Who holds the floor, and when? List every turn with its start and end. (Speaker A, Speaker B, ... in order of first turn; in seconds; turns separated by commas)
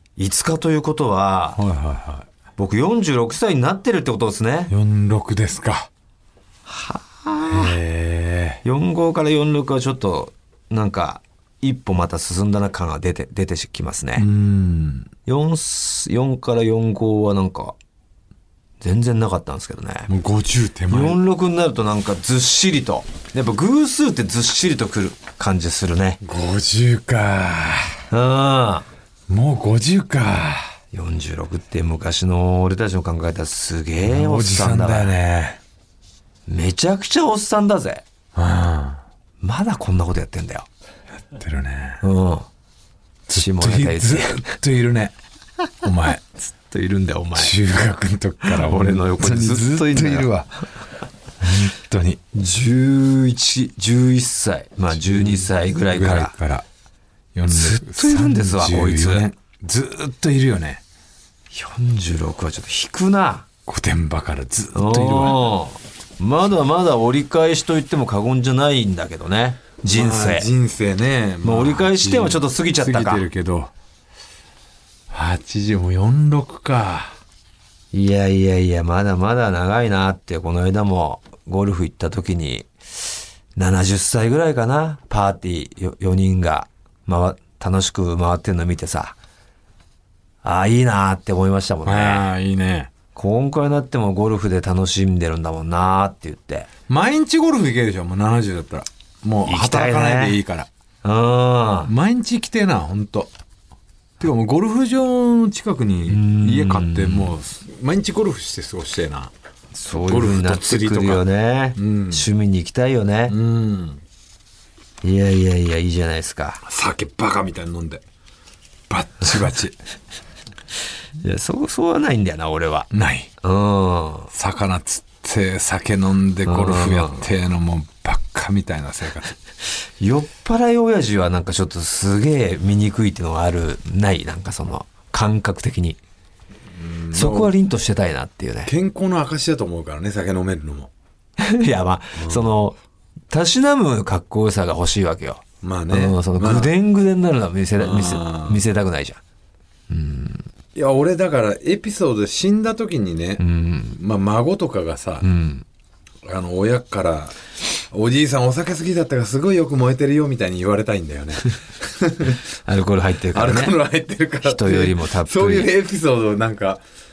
Speaker A: 0.2-1.6, Speaker B: 1.6-2.3, Speaker A: 2.6-4.7, Speaker B: 4.7-5.9, Speaker A: 6.7-7.8, Speaker B: 7.5-8.6, Speaker A: 8.6-14.3, Speaker B: 14.2-15.1, Speaker A: 15.2-17.8, Speaker A: 18.8-20.1, Speaker B: 20.1-21.2, Speaker A: 20.9-26.2, Speaker B: 26.2-28.0, Speaker A: 28.1-28.9, Speaker B: 29.3-30.7, Speaker A: 30.9-35.1, Speaker B: 34.0-35.6, Speaker A: 36.5-38.0, Speaker B: 38.3-39.0, Speaker A: 39.4-40.7, Speaker B: 41.3-42.0, Speaker A: 42.0-42.5, Speaker A: 43.3-44.5, Speaker B: 43.3-45.1, Speaker B: 45.8-46.2, Speaker A: 46.4-47.5, Speaker B: 47.3-50.6, Speaker A: 48.4-50.3, Speaker B: 51.4-52.2, Speaker A: 52.3-56.3, Speaker B: 55.0-56.6, Speaker B: 57.3-60.8, Speaker A: 57.5-59.3, Speaker A: 61.5-63.5, Speaker B: 63.6-65.5, Speaker A: 64.7-70.5, Speaker B: 69.8-73.7, Speaker A: 71.4-73.3, Speaker B: 75.1-77.2, Speaker A: 77.9-89.2, Speaker A: 90.4-92.2, Speaker B: 91.8-92.9, Speaker A: 93.1-96.7, Speaker B: 96.9-100.7, Speaker A: 99.5-100.4, Speaker A: 101.0-101.9, Speaker B: 101.8-103.3, Speaker B: 104.2-109.3, Speaker A: 106.1-107.3, Speaker A: 109.7-113.4, Speaker B: 110.0-112.3, Speaker B: 113.3-114.0, Speaker A: 115.0-116.6, Speaker B: 116.6-118.0, Speaker B: 118.9-119.8, Speaker A: 121.2-124.3, Speaker B: 122.9-123.3, Speaker B: 124.3-129.3, Speaker A: 126.5-127.3, Speaker A: 130.0-136.0, Speaker B: 136.7-137.5, Speaker A: 137.1-138.7, Speaker B: 138.7-140.9, Speaker A: 141.4-142.8, Speaker B: 142.2-142.5, Speaker A: 143.3-149.2, Speaker B: 145.6-146.7, Speaker B: 147.8-148.6, Speaker A: 149.9-150.4, Speaker B: 150.7-155.3, Speaker A: 153.4-154.0, Speaker A: 155.2-155.6, Speaker B: 156.2-157.4, Speaker B: 157.9-162.4, Speaker A: 162.6-163.8, Speaker B: 163.3-166.8, Speaker A: 164.4-165.7